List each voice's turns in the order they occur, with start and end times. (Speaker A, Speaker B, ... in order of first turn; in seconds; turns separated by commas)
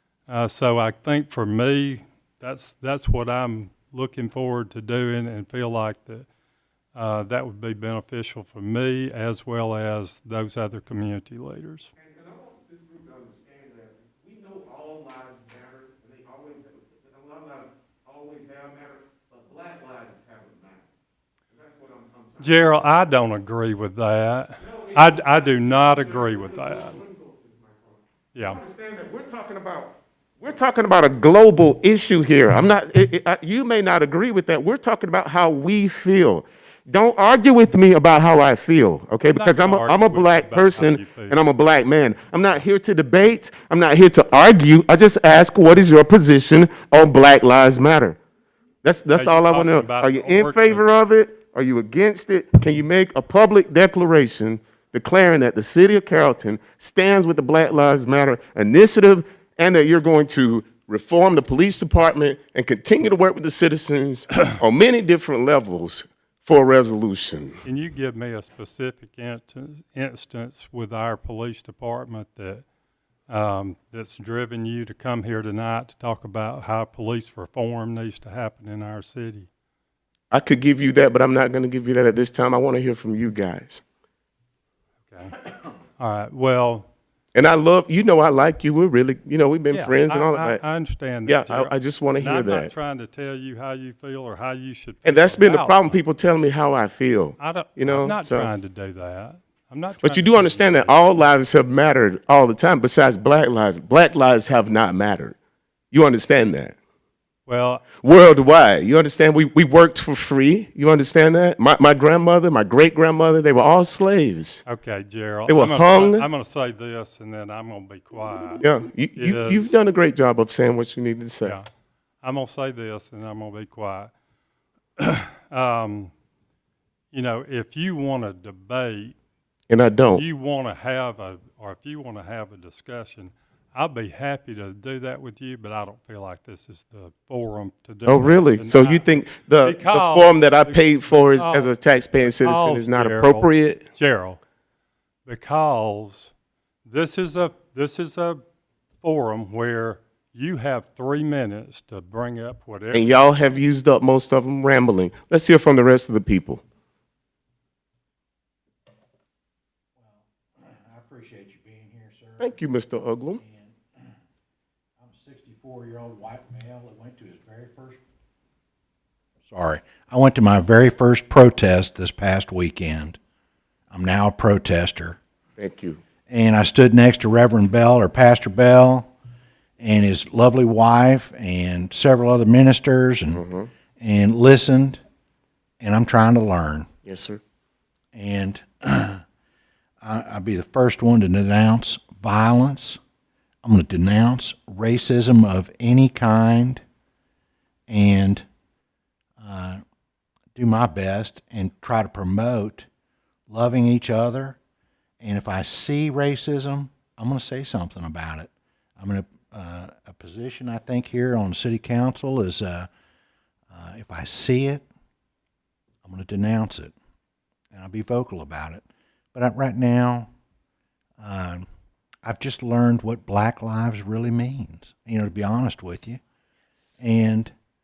Speaker A: 0.3-6.3, Speaker A: 6.9-11.9, Speaker B: 12.0-20.9, Speaker B: 21.5-22.8, Speaker A: 22.4-27.0, Speaker B: 24.6-48.2, Speaker A: 28.3-28.6, Speaker A: 39.3-41.4, Speaker B: 48.8-67.6, Speaker A: 49.1-50.8, Speaker A: 67.6-72.6, Speaker A: 73.3-79.5, Speaker B: 80.3-83.8, Speaker A: 85.1-85.4, Speaker A: 86.0-86.9, Speaker B: 87.3-90.6, Speaker A: 89.7-96.0, Speaker B: 91.2-92.7, Speaker B: 95.0-98.5, Speaker A: 97.4-101.0, Speaker B: 100.0-105.3, Speaker B: 105.9-106.7, Speaker A: 107.5-107.8, Speaker B: 108.0-114.6, Speaker A: 114.7-118.6, Speaker B: 115.5-116.3, Speaker B: 118.6-121.5, Speaker A: 119.2-119.7, Speaker A: 122.2-124.1, Speaker A: 125.0-126.1, Speaker A: 127.1-129.1, Speaker B: 129.7-130.2, Speaker A: 130.1-144.4, Speaker B: 138.1-143.8, Speaker A: 145.2-146.3, Speaker A: 146.8-148.4, Speaker A: 149.0-153.2, Speaker B: 152.9-156.6, Speaker C: 160.0-162.6, Speaker B: 162.4-163.4, Speaker C: 163.4-164.1, Speaker C: 165.0-168.0, Speaker C: 169.4-173.2, Speaker C: 173.9-175.2, Speaker B: 175.6-176.0, Speaker C: 176.3-179.1, Speaker C: 179.8-183.4, Speaker B: 183.3-183.7, Speaker C: 184.0-185.0, Speaker C: 185.8-186.9, Speaker B: 187.0-187.4, Speaker C: 188.1-189.2, Speaker C: 190.0-193.0, Speaker C: 193.6-196.8, Speaker C: 197.9-198.4, Speaker C: 199.4-199.8, Speaker C: 200.5-202.9, Speaker C: 203.5-204.6, Speaker C: 205.2-212.9, Speaker C: 213.7-214.8, Speaker C: 216.0-216.9, Speaker C: 217.7-220.3, Speaker C: 221.2-221.7, Speaker C: 222.2-226.2, Speaker C: 227.0-227.5